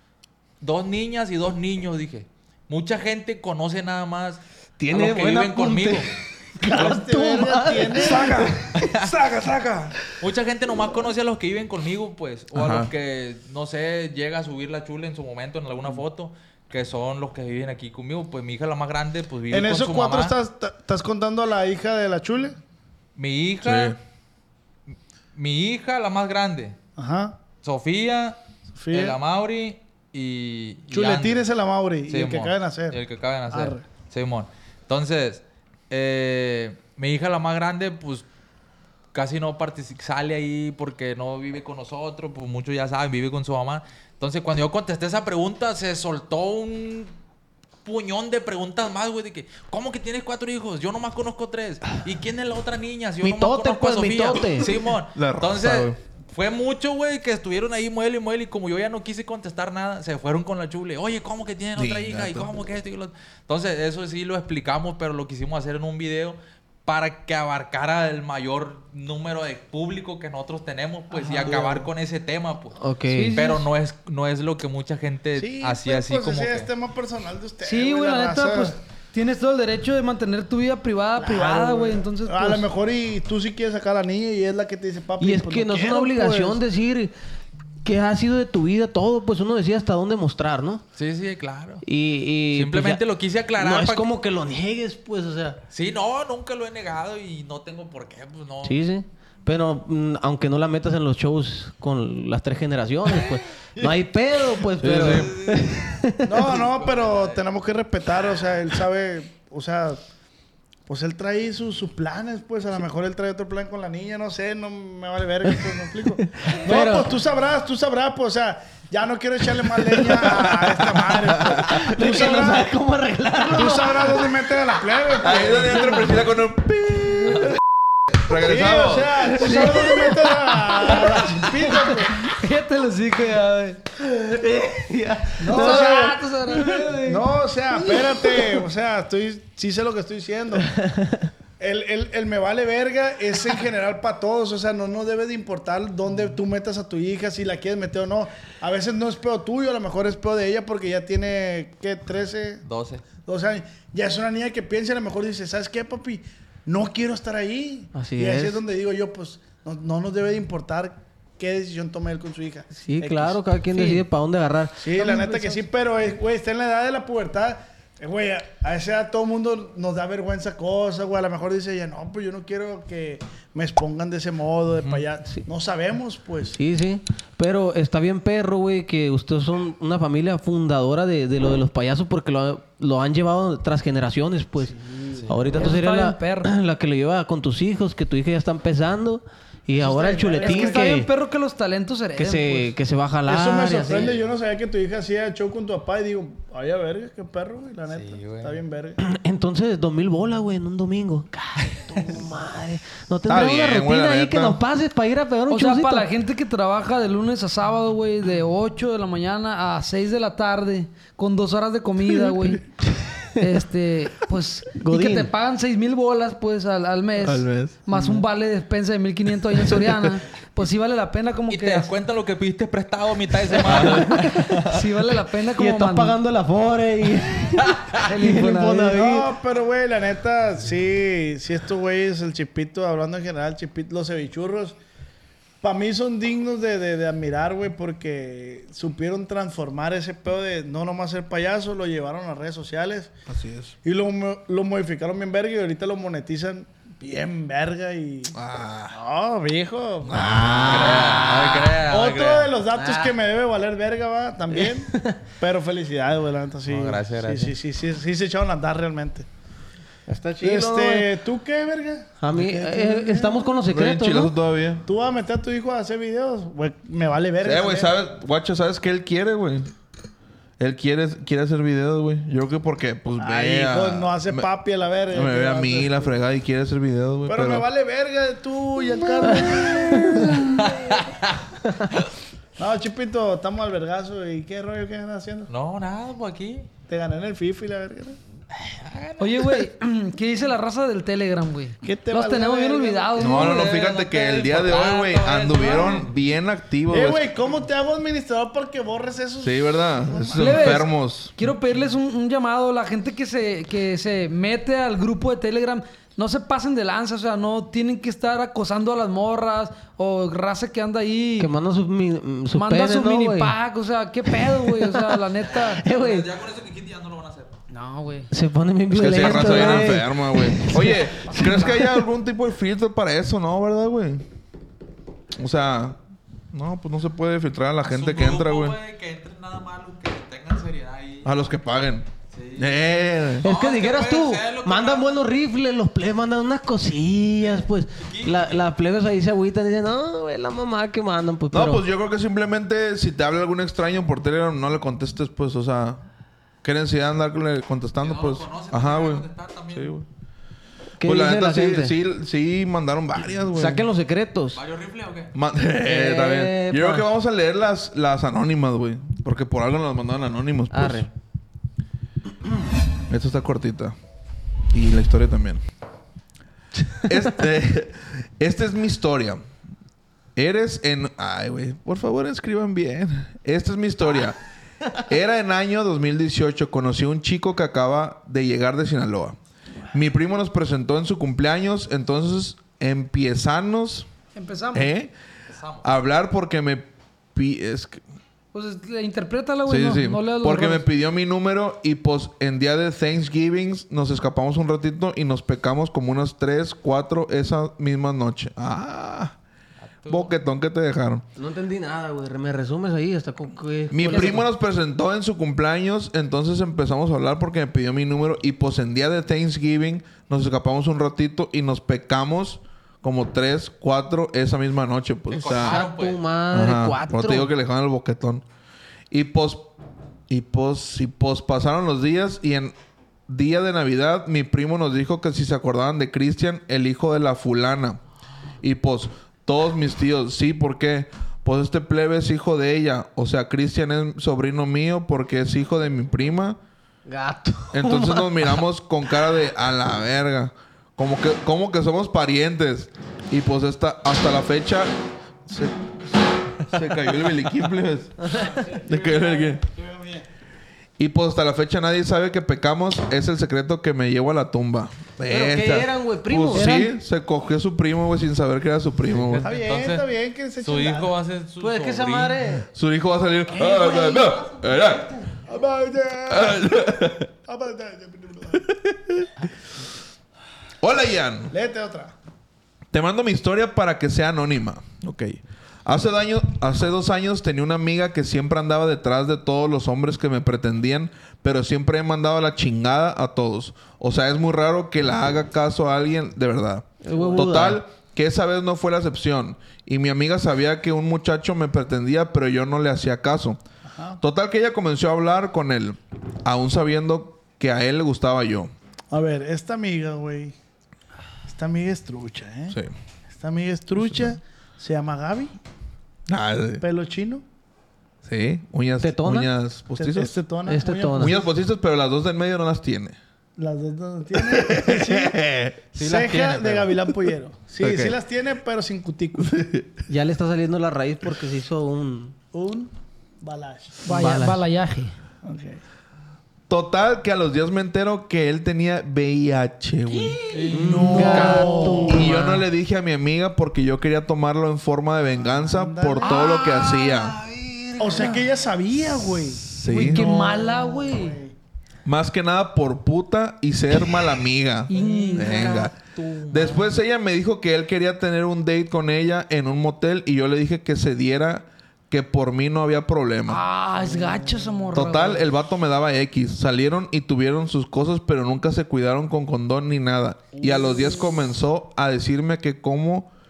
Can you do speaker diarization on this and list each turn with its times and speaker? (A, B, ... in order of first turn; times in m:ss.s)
0:00.6-0:06.1 A
0:04.8-0:08.4 B
0:06.6-0:08.5 C
0:08.0-0:09.9 D
0:08.7-0:09.1 A
0:10.1-0:20.3 A
0:12.5-0:12.9 D
0:19.5-0:22.6 C
0:23.2-0:24.0 A
0:23.6-0:24.0 D
0:25.3-0:26.8 A
0:27.0-0:27.4 C
0:27.6-0:28.4 A
0:28.7-0:29.2 C
0:28.9-0:31.4 A
0:30.9-0:33.8 C
0:32.1-0:38.3 A
0:39.1-0:47.1 A
0:47.8-1:12.8 A
0:53.2-0:54.7 B
0:55.1-0:56.0 D
1:01.8-1:02.5 D
1:11.2-1:11.6 E
1:11.4-1:11.8 C
1:12.8-1:13.4 B
1:13.1-1:13.6 E
1:13.3-1:16.7 A
1:15.4-1:18.8 C
1:17.6-1:22.6 E
1:21.2-1:26.6 C
1:25.2-1:27.1 B
1:27.8-1:30.8 B
1:31.0-1:31.8 A
1:31.8-1:33.0 B
1:32.5-1:34.1 A
1:33.6-1:35.6 B
1:35.7-1:38.8 A
1:38.6-1:46.6 B
1:44.8-1:45.3 D
1:45.0-1:45.5 A
1:46.2-1:50.0 C
1:46.4-1:47.4 A
1:50.9-2:02.7 C
1:56.1-1:57.1 B
2:00.4-2:01.6 D
2:01.6-2:04.3 B
2:03.4-2:06.0 C
2:05.2-2:07.5 D
2:08.2-2:10.0 D
2:08.3-2:12.2 C
2:09.4-2:09.8 E
2:11.0-2:13.8 E
2:14.1-2:16.1 B
2:15.4-2:16.2 C
2:15.4-2:17.2 E
2:17.0-2:20.7 C
2:21.6-2:32.6 C
2:32.6-2:33.0 A
2:33.2-2:43.4 C
2:37.9-2:38.6 B
2:42.8-2:44.8 B
2:43.7-2:44.0 E
2:44.8-2:56.6 C
2:44.9-2:45.6 E
2:56.5-3:04.7 B
3:04.6-3:05.4 C
3:05.3-3:11.1 B
3:05.6-3:06.5 E
3:09.7-3:10.8 C
3:10.4-3:12.7 E
3:12.2-3:14.1 B
3:13.2-3:19.0 C
3:17.9-3:18.6 A
3:19.0-3:26.1 B
3:23.3-3:24.6 D
3:25.5-3:32.6 E
3:33.4-3:41.9 E
3:34.8-3:35.3 B
3:37.2-3:37.8 D
3:37.9-3:38.2 B
3:41.5-3:44.2 A
3:43.7-3:44.7 B
3:44.6-3:46.2 E
3:45.5-3:49.3 B
3:48.0-3:49.0 E
3:48.9-3:54.8 C
3:55.6-4:03.1 C
4:03.3-4:03.8 D
4:03.8-4:08.3 C
4:08.3-4:09.0 D
4:08.9-4:10.8 C
4:10.0-4:11.3 D
4:10.6-4:12.5 A
4:10.8-4:11.7 B
4:11.8-4:19.3 C
4:12.7-4:13.1 B
4:14.5-4:15.2 B
4:16.7-4:17.5 A
4:20.1-4:21.1 B
4:20.4-4:23.5 C
4:22.2-4:24.3 B
4:23.6-4:24.8 D
4:24.8-4:27.9 C
4:27.4-4:29.7 D
4:30.6-4:34.4 D
4:33.2-4:36.2 C
4:35.1-4:37.6 D
4:37.3-4:40.7 C
4:39.3-4:40.4 B
4:40.6-4:41.4 A
4:42.6-4:45.5 C
4:45.5-4:46.7 A
4:46.9-4:48.2 C
4:48.6-4:49.5 A
4:49.2-4:53.9 E
4:51.8-4:53.4 C
4:53.2-4:57.2 D
4:53.3-4:56.1 A
4:56.9-5:00.7 C
4:59.4-5:01.4 D
5:00.3-5:11.5 E
5:11.4-5:13.5 B
5:12.5-5:15.8 E
5:14.3-5:15.2 B
5:15.4-5:17.6 A
5:15.8-5:16.3 B
5:17.7-5:18.3 E
5:18.3-5:21.7 B
5:18.9-5:24.2 D
5:21.3-5:21.9 E
5:25.4-5:26.0 D
5:26.5-5:28.8 D
5:27.8-5:31.3 A
5:31.2-5:32.0 D
5:32.3-5:35.2 A
5:32.6-5:33.4 D
5:33.4-5:41.8 B
5:37.4-5:38.6 A
5:41.5-5:46.0 D
5:46.6-5:50.0 D
5:48.0-5:49.9 A
5:51.0-5:51.9 B
5:51.0-5:53.9 D
5:53.5-5:54.6 B
5:54.5-5:55.3 A
5:55.3-6:01.1 D
5:55.8-5:57.0 B
6:00.7-6:01.1 B
6:03.1-6:03.9 D
6:04.7-6:05.6 D
6:07.1-6:09.4 D
6:10.4-6:14.4 D
6:15.1-6:19.4 D
6:19.9-6:24.1 D
6:24.3-6:24.9 E
6:24.7-6:25.1 D
6:25.5-6:25.9 A
6:25.8-6:28.0 D
6:28.5-6:30.9 E
6:29.6-6:39.3 D
6:39.8-6:40.3 A
6:40.1-6:41.2 D
6:41.4-6:44.5 B
6:43.9-6:55.8 D
6:55.3-6:56.2 A
6:55.4-6:57.5 B
6:56.5-6:58.4 D
6:59.1-6:59.7 D
7:00.3-7:02.7 D
7:03.3-7:08.0 D
7:08.6-7:16.6 D
7:17.1-7:18.6 B
7:17.7-7:24.9 D
7:25.5-7:25.9 D
7:26.5-7:28.1 D
7:28.3-7:28.6 B
7:28.3-7:30.2 C
7:28.8-7:29.6 D
7:31.0-7:39.5 D
7:35.3-7:36.9 B
7:36.6-7:36.9 E
7:39.1-7:40.0 A
7:39.4-7:41.1 C
7:40.6-7:42.4 A
7:41.6-7:42.7 B
7:42.7-7:45.2 D
7:45.4-7:48.6 C
7:46.3-7:47.3 D
7:48.6-7:49.3 D
7:50.8-7:51.5 D
7:51.5-7:52.1 C
7:52.9-8:13.6 D
8:07.0-8:07.8 B
8:13.9-8:14.2 C
8:14.2-8:18.7 D
8:19.1-8:20.6 C
8:21.4-8:22.8 C
8:23.3-8:25.6 C
8:24.0-8:24.4 D
8:26.3-8:26.8 D
8:26.8-8:27.4 C
8:28.2-8:30.4 D
8:29.0-8:29.5 B
8:30.0-8:31.4 C
8:30.6-8:31.4 B
8:31.2-8:33.2 D
8:33.6-8:35.4 C
8:34.4-8:35.8 D
8:35.9-8:36.9 A
8:35.9-8:39.6 C
8:37.8-8:38.2 D
8:39.4-8:40.0 D
8:40.1-8:42.4 B
8:42.5-8:44.0 C
8:44.0-8:45.1 E
8:44.1-8:44.6 B
8:45.4-8:45.8 C
8:46.7-8:57.4 D
8:50.5-8:51.8 A
8:50.7-8:52.3 C
8:50.7-8:52.7 B
8:51.1-8:52.0 E
8:55.4-8:56.4 C
8:56.2-8:58.4 B
8:58.0-9:01.5 C
8:59.6-9:00.4 D
8:59.8-9:01.4 E
9:02.0-9:05.9 D
9:04.9-9:05.9 E
9:06.5-9:13.6 D
9:13.4-9:15.5 E
9:14.2-9:14.8 C
9:14.9-9:23.3 D
9:20.7-9:21.0 E